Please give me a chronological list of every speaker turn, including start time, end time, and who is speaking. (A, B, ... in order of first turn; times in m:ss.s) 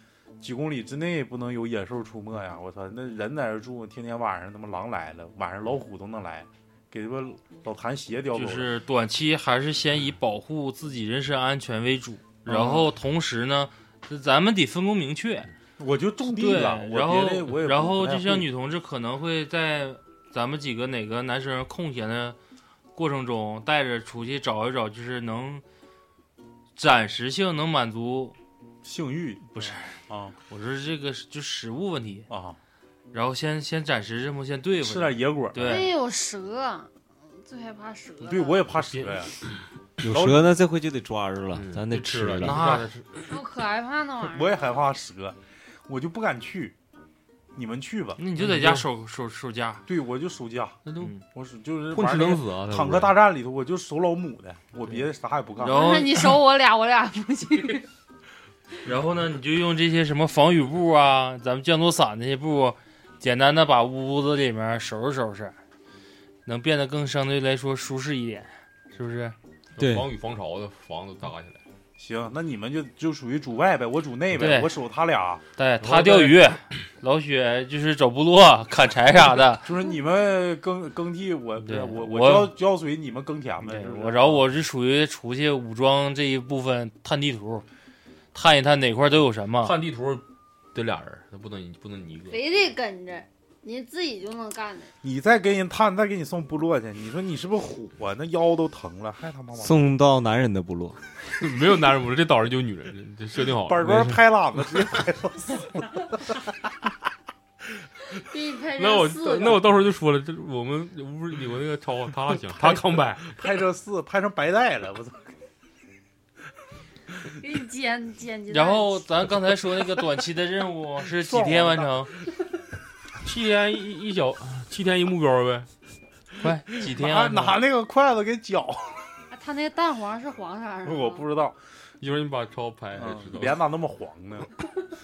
0:00.4-0:08.7 A
0:08.3-0:15.5 B
0:12.4-0:12.9 A
0:15.8-0:18.5 A
0:16.2-0:22.4 B
0:22.9-0:25.6 B
0:26.8-0:28.3 B
0:28.8-0:30.4 A
0:29.5-0:30.0 B
0:30.5-0:32.3 B
0:32.3-0:32.6 A
0:33.1-0:35.9 B
0:34.8-0:35.8 A
0:35.6-0:38.6 C
0:38.2-0:39.3 A
0:38.8-0:39.1 D
0:40.0-0:42.6 E
0:40.1-0:40.5 A
0:41.5-0:43.2 D
0:42.4-0:42.9 B
0:43.3-0:44.6 C
0:44.3-0:46.7 A
0:47.5-0:48.2 A
0:48.2-0:49.8 B
0:48.4-0:48.8 D
0:49.9-0:55.8 A
0:50.8-0:51.1 D
0:51.0-0:51.2 B
0:51.9-0:53.1 D
0:55.6-0:57.8 C
0:55.6-0:56.4 B
0:58.8-1:05.6 B
1:06.4-1:09.4 B
1:09.8-1:11.6 D
1:09.8-1:10.1 E
1:12.0-1:15.4 A
1:14.3-1:14.7 B
1:15.6-1:19.7 B
1:15.8-1:16.5 D
1:19.6-1:24.5 A
1:21.6-1:22.6 B
1:23.6-1:27.6 B
1:28.3-1:29.8 B
1:29.6-1:32.4 D
1:32.3-1:34.9 C
1:35.0-1:39.8 A
1:39.5-1:41.0 E
1:41.3-1:44.1 D
1:43.6-1:46.4 A
1:43.8-1:44.2 E
1:48.3-1:49.6 C
1:48.8-1:53.4 D
1:52.5-1:55.3 A
1:57.4-1:59.0 C
1:58.5-2:02.1 B
2:01.2-2:02.0 A
2:03.2-2:05.7 D
2:06.4-2:07.6 B
2:06.8-2:09.1 A
2:09.3-2:11.3 C
2:10.8-2:11.6 A
2:12.0-2:13.6 D
2:13.0-2:14.5 A